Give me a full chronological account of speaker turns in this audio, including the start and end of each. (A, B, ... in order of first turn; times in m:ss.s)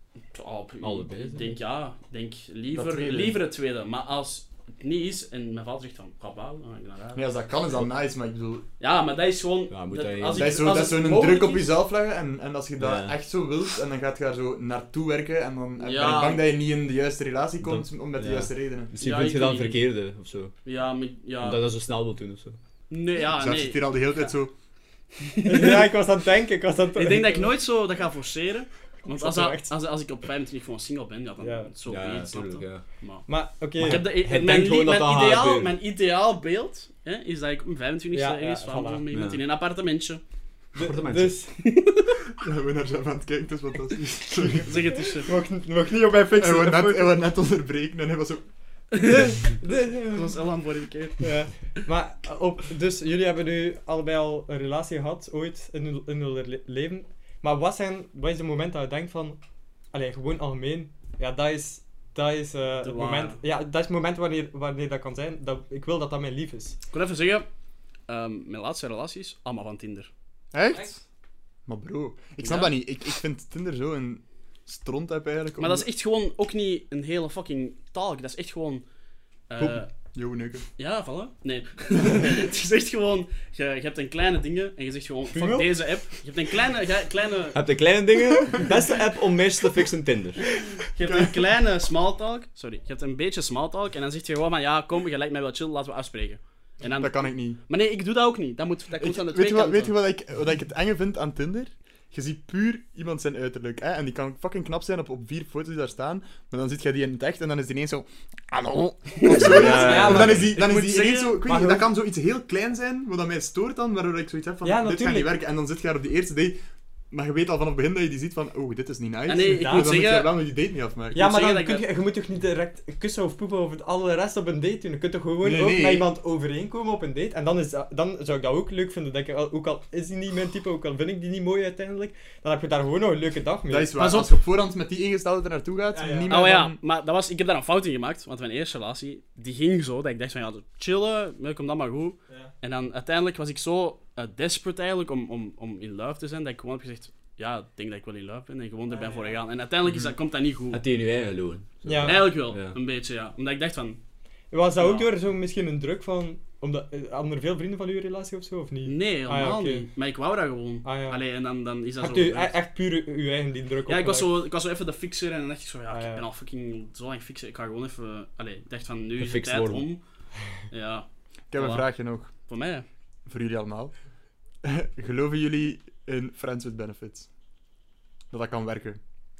0:00.3-0:07.3 A
0:00.8-0:01.6 B
0:02.7-0:03.4 C
0:07.2-0:08.7 C
0:08.8-0:11.7 A
0:09.7-0:10.9 B
0:10.3-0:18.9 C
0:12.8-0:13.2 B
0:15.8-0:16.5 A
0:17.6-0:20.5 B
0:19.0-0:19.8 A
0:20.6-0:21.6 A
0:21.4-0:22.6 B
0:22.9-0:24.1 A
0:23.2-0:24.5 C
0:25.2-0:25.9 A
0:25.4-0:27.5 D
0:27.0-0:33.2 A
0:29.0-0:29.7 D
0:31.4-0:31.7 D
0:31.9-0:32.8 B
0:33.3-0:34.1 D
0:33.8-0:35.8 B
0:33.8-0:40.2 A
0:38.1-0:39.0 D
0:39.1-0:39.4 B
0:40.8-0:41.6 D
0:40.8-0:41.4 B
0:41.6-0:42.3 A
0:42.4-0:44.9 C
0:44.4-0:45.3 A
0:45.3-0:47.2 D
0:46.4-0:48.4 C
0:48.9-0:51.2 A
0:49.1-0:50.4 D
0:51.2-0:59.4 D
0:59.9-1:06.8 D
1:02.8-1:03.4 A
1:06.9-1:07.5 A
1:08.1-1:10.1 A
1:10.5-1:11.0 C
1:11.7-1:15.9 C
1:12.4-1:12.8 A
1:15.6-1:18.8 A
1:19.5-1:19.9 A
1:20.1-1:20.7 C
1:20.8-1:27.6 A
1:25.3-1:25.8 D
1:27.5-1:30.4 B
1:30.8-1:40.0 A
1:31.0-1:31.3 C
1:36.9-1:37.6 C
1:39.0-1:56.6 C
1:49.2-1:51.4 A
1:49.3-1:50.5 B
1:49.8-1:50.5 D
1:51.4-1:51.9 D
1:54.6-1:55.4 D
1:57.1-2:01.3 C
1:59.3-2:00.4 A
1:59.5-1:59.9 D
2:01.1-2:01.9 A
2:01.1-2:14.0 D
2:05.4-2:06.1 C
2:13.7-2:16.8 C
2:14.0-2:14.3 A
2:15.9-2:16.4 D
2:16.3-2:30.8 A
2:28.9-2:29.4 D
2:30.7-2:32.8 B
2:31.8-2:32.3 D
2:32.0-2:34.0 A
2:34.5-2:39.9 D
2:34.8-2:35.1 A
2:38.8-2:42.5 A
2:40.8-2:41.2 D
2:42.0-2:44.4 D
2:43.9-2:50.0 A
2:45.9-2:46.2 D
2:49.2-2:49.9 B
2:50.7-2:52.9 A
2:51.5-2:52.3 C
2:53.3-2:53.9 C
2:54.6-2:57.3 C
2:58.3-2:59.0 C